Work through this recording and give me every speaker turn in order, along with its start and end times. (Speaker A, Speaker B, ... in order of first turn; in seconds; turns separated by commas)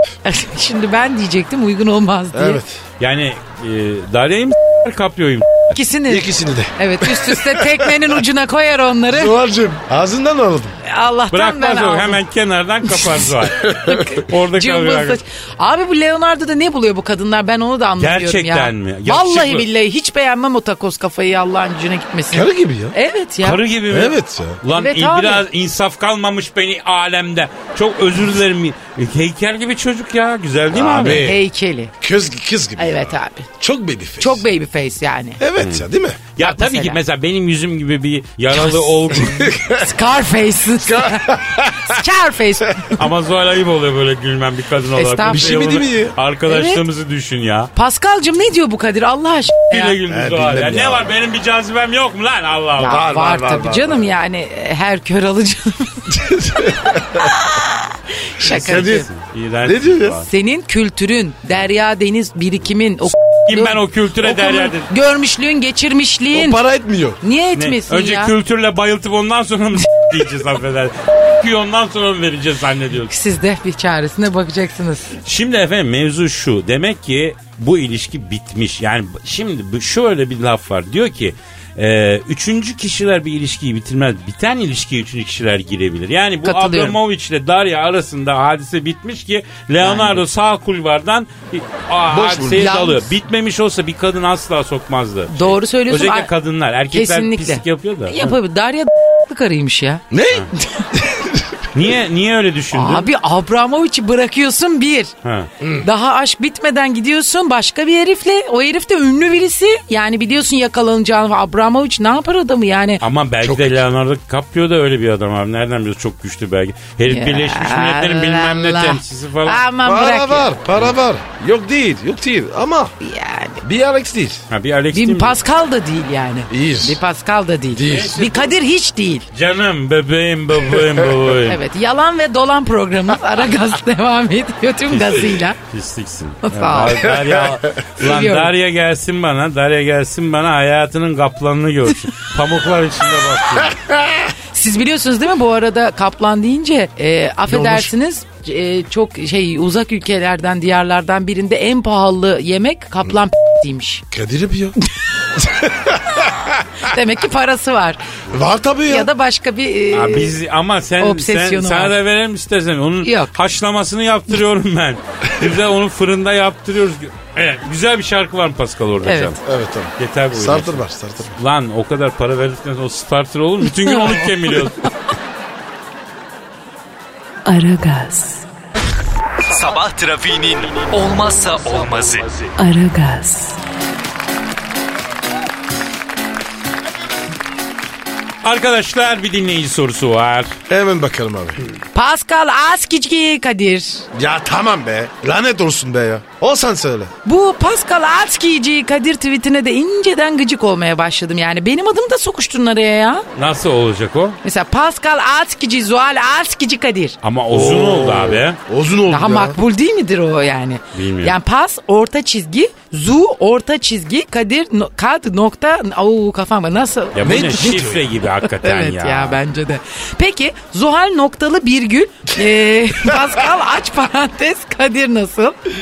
Speaker A: 0.2-2.6, Speaker B: 2.3-2.8, Speaker C: 3.0-5.7, Speaker A: 5.7-9.4, Speaker B: 6.1-7.8, Speaker B: 9.1-10.8, Speaker A: 10.8-12.2, Speaker C: 11.3-15.2, Speaker A: 12.9-23.6, Speaker C: 18.0-19.6, Speaker B: 22.3-22.9, Speaker C: 23.4-31.2, Speaker B: 23.9-24.6, Speaker A: 24.7-25.4, Speaker B: 30.7-31.4, Speaker A: 31.0-31.9, Speaker B: 32.0-34.4, Speaker A: 32.8-33.5, Speaker A: 34.2-35.4, Speaker B: 35.4-36.2, Speaker C: 35.6-35.8, Speaker C: 36.4-39.6, Speaker A: 36.4-37.0, Speaker B: 39.1-39.8, Speaker A: 39.7-43.0, Speaker B: 40.8-41.9, Speaker C: 43.0-47.7, Speaker A: 44.9-45.6, Speaker B: 45.3-46.1, Speaker A: 46.5-46.8, Speaker A: 47.7-50.0, Speaker C: 49.7-53.0, Speaker B: 50.1-51.1, Speaker A: 52.8-56.1, Speaker B: 52.8-54.1, Speaker B: 56.1-57.3, Speaker A: 57.2-59.1, Speaker B: 58.4-59.0, Speaker C: 58.4-60.3, Speaker B: 59.6-60.2, Speaker A: 60.3-66.6, Speaker C: 63.5-64.9, Speaker B: 66.3-67.2, Speaker A: 67.2-68.3, Speaker C: 67.5-73.1, Speaker A: 73.1-75.1, Speaker C: 75.2-98.4, Speaker A: 86.4-87.0, Speaker A: 89.8-90.2, Speaker B: 92.1-92.7, Speaker A: 92.5-93.1, Speaker A: 95.3-96.3, Speaker A: 96.9-100.0, Speaker B: 100.1-101.6, Speaker A: 100.6-100.9, Speaker C: 101.7-103.1, Speaker A: 102.7-105.1, Speaker C: 105.2-105.5, Speaker B: 105.6-105.9, Speaker A: 105.8-113.0, Speaker C: 113.0-119.6, Speaker B: 113.4-113.8, Speaker A: 117.1-120.6, Speaker B: 119.8-122.9, Speaker A: 123.0-123.6, Speaker B: 123.6-124.4, Speaker C: 124.5-125.4, Speaker A: 124.9-129.3, Speaker B: 126.5-127.0, Speaker B: 127.7-128.3, Speaker C: 127.9-128.2, Speaker C: 129.3-131.6, Speaker A: 131.4-135.6, Speaker C: 134.9-143.8, Speaker A: 136.4-137.1, Speaker B: 137.1-137.6, Speaker A: 138.0-138.5, Speaker B: 143.6-144.3, Speaker A: 144.5-154.0, Speaker B: 147.5-147.9, Speaker B: 154.1-154.8, Speaker B: 155.4-156.7, Speaker A: 156.7-158.0, Speaker B: 158.3-159.1, Speaker A: 158.9-160.4, Speaker C: 159.9-169.4, Speaker A: 161.0-162.0, Speaker A: 163.0-163.3, Speaker A: 169.0-169.3, Speaker B: 169.4-171.3, Speaker C: 170.0-170.8, Speaker C: 171.3-174.9, Speaker A: 173.8-174.9, Speaker D: 177.4-178.4, Speaker E: 179.4-182.5, Speaker D: 182.6-183.6, Speaker C: 188.4-190.5, Speaker B: 190.7-191.6, Speaker A: 191.9-194.1, Speaker B: 194.1-197.1, Speaker A: 197.2-203.2, Speaker C: 203.3-204.4, Speaker A: 204.4-207.2, Speaker C: 207.2-208.6, Speaker B: 207.5-209.6, Speaker A: 209.1-217.7, Speaker C: 210.9-211.4, Speaker C: 217.1-219.4, Speaker B: 217.2-218.1, Speaker A: 218.4-225.6